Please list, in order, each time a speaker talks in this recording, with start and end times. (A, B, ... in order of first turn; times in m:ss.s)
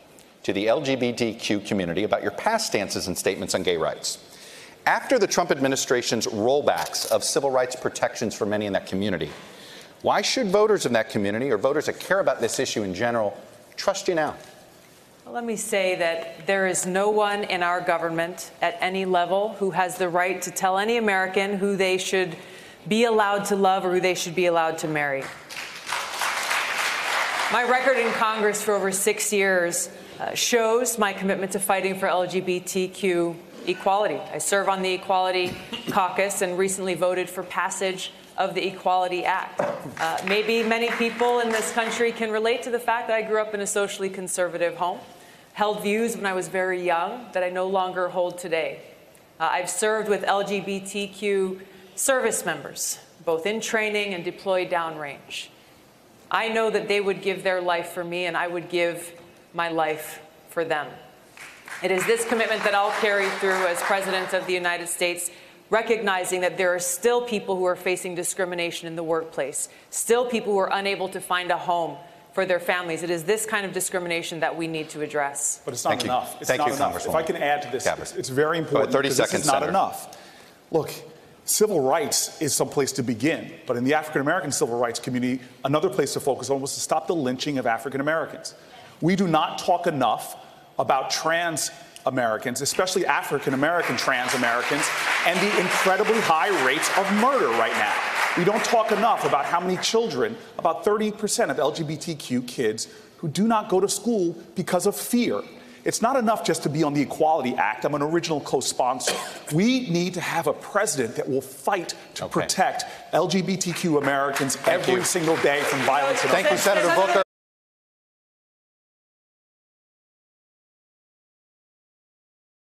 0:00.4-0:04.2 A
0:04.8-0:09.3 A
0:10.0-0:14.4 A
0:15.2-0:25.3 B
0:27.5-0:48.9 B
0:49.4-0:55.5 B
0:56.3-1:01.0 B
1:01.8-1:15.6 B
1:15.6-1:20.1 C
1:15.9-1:18.1 A
1:18.7-1:19.8 A
1:20.7-1:57.0 C
1:52.2-1:52.5 A
1:54.7-1:55.1 A
1:56.3-1:57.2 A